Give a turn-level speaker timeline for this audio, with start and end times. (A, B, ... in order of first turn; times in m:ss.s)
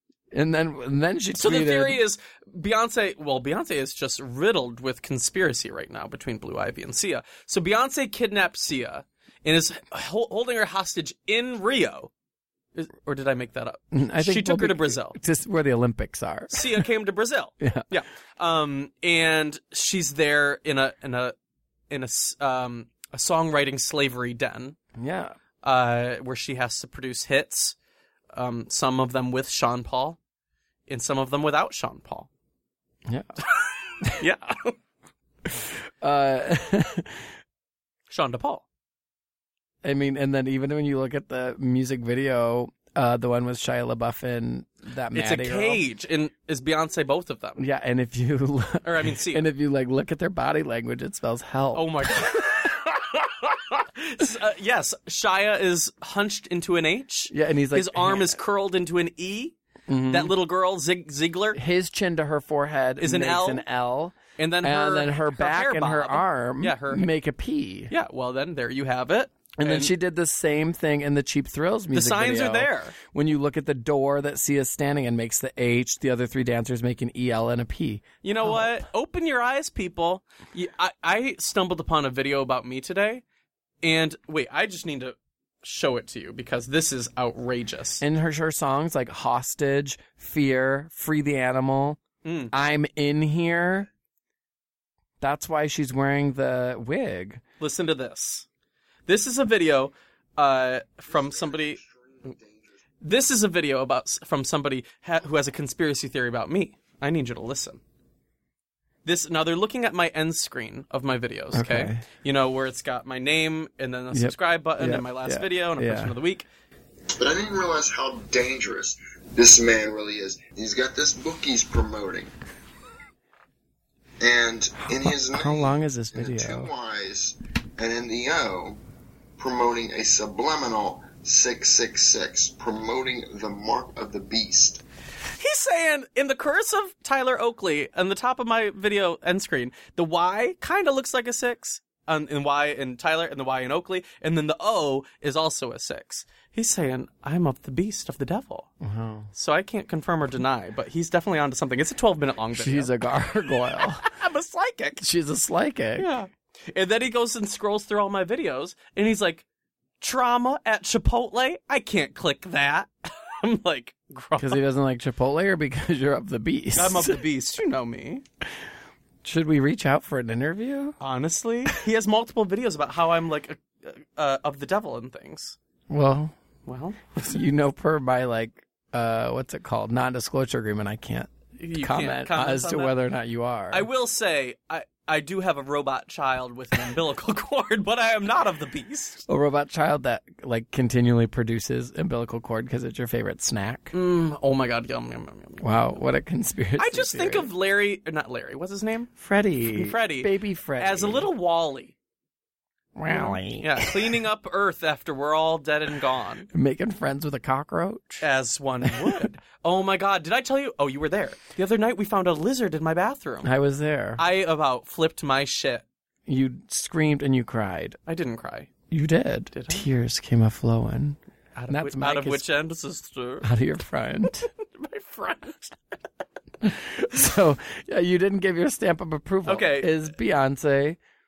0:00.3-0:02.0 A
0:01.3-0:12.1 B
0:12.7-0:15.2 B
0:13.9-0:16.8 A
0:16.5-0:21.3 B
0:17.6-0:17.8 A
0:21.9-0:24.8 B
0:25.0-0:25.4 A
0:25.6-0:27.8 B
0:28.3-0:30.2 B
0:30.9-0:32.3 B
0:33.0-0:33.4 A
0:33.5-0:34.8 B
0:35.4-0:37.3 A
0:38.1-0:38.6 B
0:39.8-0:45.8 A
0:45.1-0:47.6 B
0:47.6-0:52.7 A
0:48.8-0:49.4 B
0:51.7-0:59.6 B
0:57.3-0:58.4 A
0:59.9-1:00.3 A
1:00.1-1:01.6 B
1:01.5-1:07.9 A
1:03.0-1:03.6 B
1:04.4-1:07.1 B
1:07.9-1:09.9 B
1:09.6-1:18.8 A
1:11.9-1:13.0 B
1:18.2-1:23.2 B
1:23.8-1:28.0 B
1:28.0-1:32.0 A
1:32.2-1:32.5 B
1:32.5-1:33.9 A
1:35.2-1:37.4 A
1:37.6-1:38.4 B
1:39.1-1:41.8 B
1:41.2-1:42.6 C
1:43.0-1:47.8 B
1:49.0-1:56.5 B
1:51.5-1:52.0 A
1:54.1-1:56.1 A
1:57.2-2:02.3 C
2:04.2-2:08.8 C
2:04.9-2:06.7 A
2:09.4-2:14.8 C
2:15.2-2:28.7 B
2:28.8-2:29.3 A
2:29.3-2:32.9 B
2:32.5-2:34.0 A
2:33.7-2:35.0 B
2:35.0-2:36.1 A
2:36.0-2:39.4 B
2:40.0-2:44.6 B
2:44.4-2:47.2 A
2:46.7-2:48.2 B
2:49.2-2:51.0 A
2:51.0-2:55.6 B
2:55.9-2:56.3 A
2:56.6-2:57.2 B
2:57.2-3:03.9 A
3:01.6-3:03.0 B
3:03.7-3:09.2 B
3:09.3-3:13.9 A
3:13.9-3:15.7 B
3:15.6-3:17.5 A
3:16.8-3:19.1 B
3:19.2-3:21.3 A
3:19.7-3:21.9 B
3:23.0-3:24.2 A
3:23.1-3:26.5 B
3:26.5-3:28.2 A
3:28.2-3:33.5 B
3:28.8-3:29.2 A
3:33.4-3:34.2 A
3:34.2-3:35.8 B
3:36.2-3:38.0 A
3:38.1-3:38.7 B
3:38.9-3:42.4 A
3:39.5-3:39.8 B
3:41.5-3:43.5 B
3:43.4-3:44.5 A
3:44.3-3:45.8 B
3:46.6-3:51.0 A
3:49.4-3:50.0 B